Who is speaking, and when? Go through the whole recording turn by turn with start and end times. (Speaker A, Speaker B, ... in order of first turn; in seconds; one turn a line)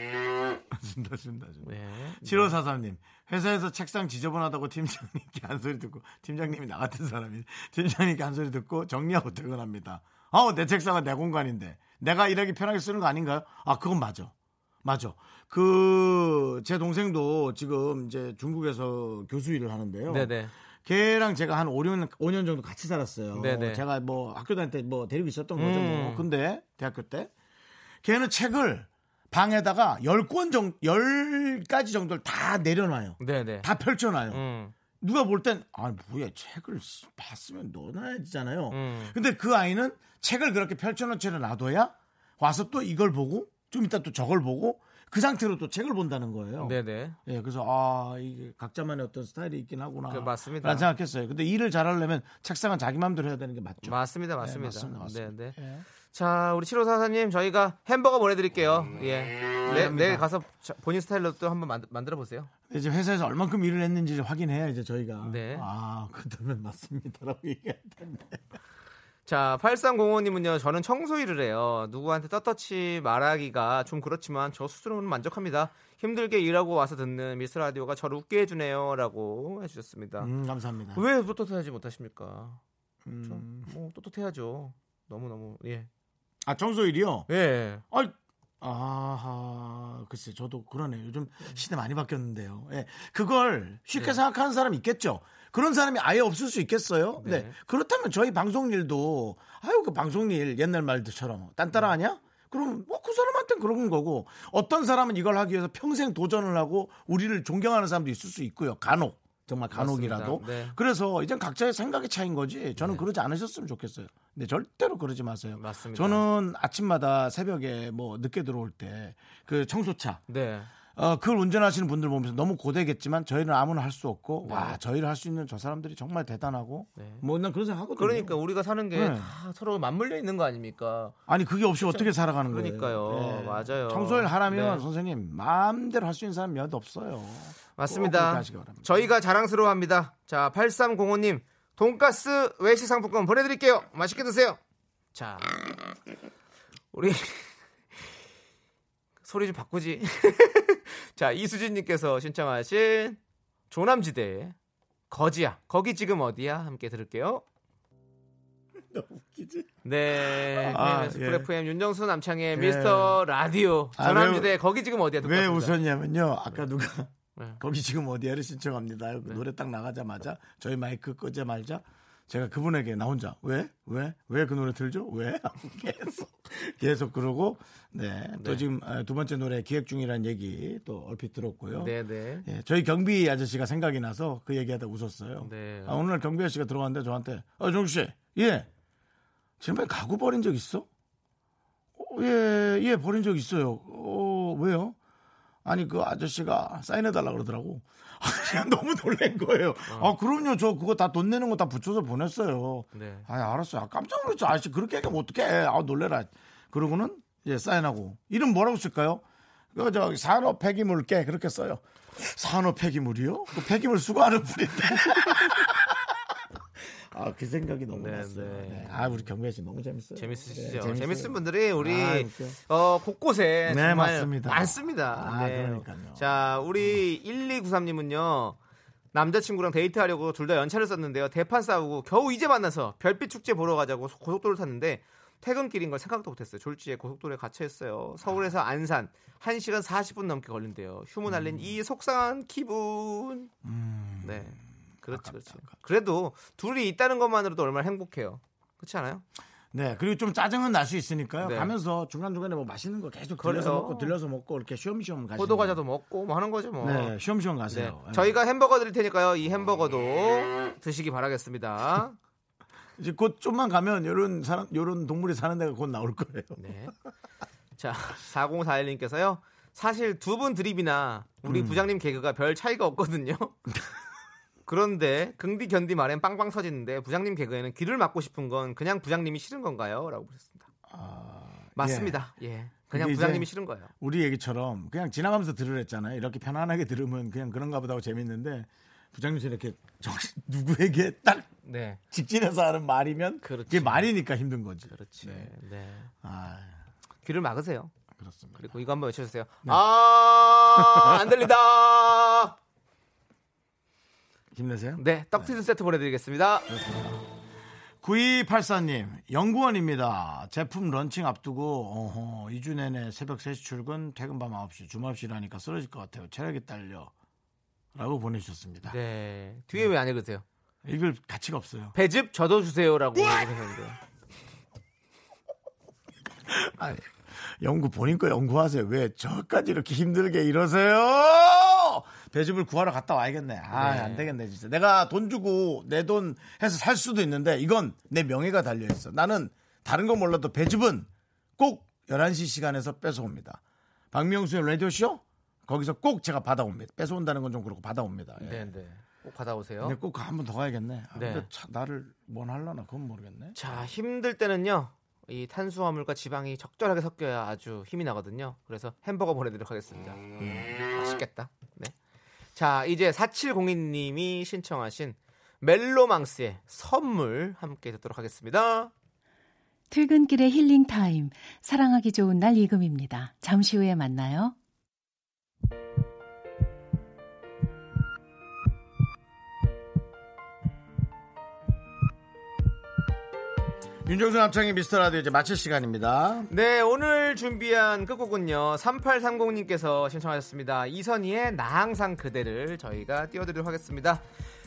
Speaker A: 0.7-14.3
Speaker B: 1.6-2.6
Speaker A: 14.8-20.3
Speaker B: 20.1-20.5
Speaker A: 20.8-27.3
Speaker B: 23.4-23.8
Speaker B: 25.6-26.3
Speaker A: 28.0-34.4
Speaker B: 33.2-33.7
Speaker B: 34.3-34.7
Speaker A: 35.0-55.9
Speaker B: 38.7-39.1
Speaker B: 46.6-47.2
Speaker B: 50.1-50.9
Speaker B: 53.8-55.5
Speaker B: 56.1-62.5
Speaker A: 59.6-60.3
Speaker A: 62.7-68.4
Speaker B: 65.2-65.7
Speaker B: 69.3-80.3
Speaker A: 80.2-81.0
Speaker B: 81.0-82.6
Speaker A: 83.1-83.7
Speaker B: 83.2-85.9
Speaker A: 86.4-87.3
Speaker B: 87.3-87.8
Speaker A: 87.9-120.2
Speaker B: 97.2-97.5
Speaker B: 109.7-110.8
Speaker B: 112.8-113.0
Speaker B: 115.6-116.2
Speaker B: 120.3-120.7
Speaker A: 121.0-128.4
Speaker B: 124.5-124.8
Speaker B: 127.0-127.2
Speaker B: 128.0-131.2
Speaker A: 128.9-129.3
Speaker A: 131.3-139.0
Speaker B: 131.8-134.8
Speaker B: 137.8-144.6
Speaker B: 145.1-145.7
Speaker B: 146.9-148.1
Speaker B: 149.2-153.2
Speaker B: 153.7-154.6
Speaker B: 155.1-157.4
Speaker A: 158.9-161.5
Speaker B: 159.8-165.8
Speaker A: 162.5-163.2
Speaker A: 164.0-164.6
Speaker A: 165.2-181.9
Speaker B: 178.4-178.6
Speaker B: 181.8-182.5
Speaker A: 182.4-188.7
Speaker B: 185.4-186.0
Speaker A: 189.6-190.9
Speaker A: 192.0-195.0
Speaker A: 195.7-209.2
Speaker B: 199.9-200.1
Speaker B: 202.9-203.3
Speaker A: 209.7-216.1
Speaker A: 216.8-222.6
Speaker B: 217.9-219.2
Speaker B: 220.2-228.6
Speaker A: 223.7-226.9
Speaker B: 229.1-243.5
Speaker A: 241.3-241.7
Speaker A: 243.6-245.7
Speaker B: 244.2-249.2
Speaker A: 249.7-255.8
Speaker B: 251.4-251.7
Speaker B: 253.4-254.1
Speaker B: 255.4-257.1
Speaker A: 256.8-258.4
Speaker B: 257.7-262.2
Speaker A: 263.0-266.6
Speaker B: 266.6-266.9
Speaker B: 267.8-273.6
Speaker A: 271.4-271.8
Speaker B: 274.7-280.7
Speaker A: 280.9-282.2
Speaker B: 281.8-283.9
Speaker A: 282.9-283.5
Speaker A: 284.0-291.5
Speaker B: 291.7-292.0
Speaker A: 292.1-295.5
Speaker B: 293.4-294.1
Speaker B: 294.9-296.1
Speaker A: 296.2-296.8
Speaker B: 297.2-297.9
Speaker A: 298.2-298.7
Speaker B: 298.6-302.6
Speaker A: 300.7-301.4
Speaker A: 304.5-305.5
Speaker B: 305.0-306.7
Speaker A: 306.7-307.2
Speaker A: 308.0-317.1
Speaker A: 317.9-319.0
Speaker B: 318.9-320.4
Speaker A: 320.9-321.9
Speaker B: 321.9-324.0
Speaker A: 326.5-343.6
Speaker B: 333.8-334.3
Speaker A: 344.1-348.7
Speaker B: 348.4-350.0
Speaker A: 349.8-353.6
Speaker B: 351.2-351.5
Speaker B: 353.6-361.9
Speaker B: 362.6-368.9
Speaker C: 369.9-374.6
Speaker A: 384.1-386.5
Speaker B: 386.5-394.2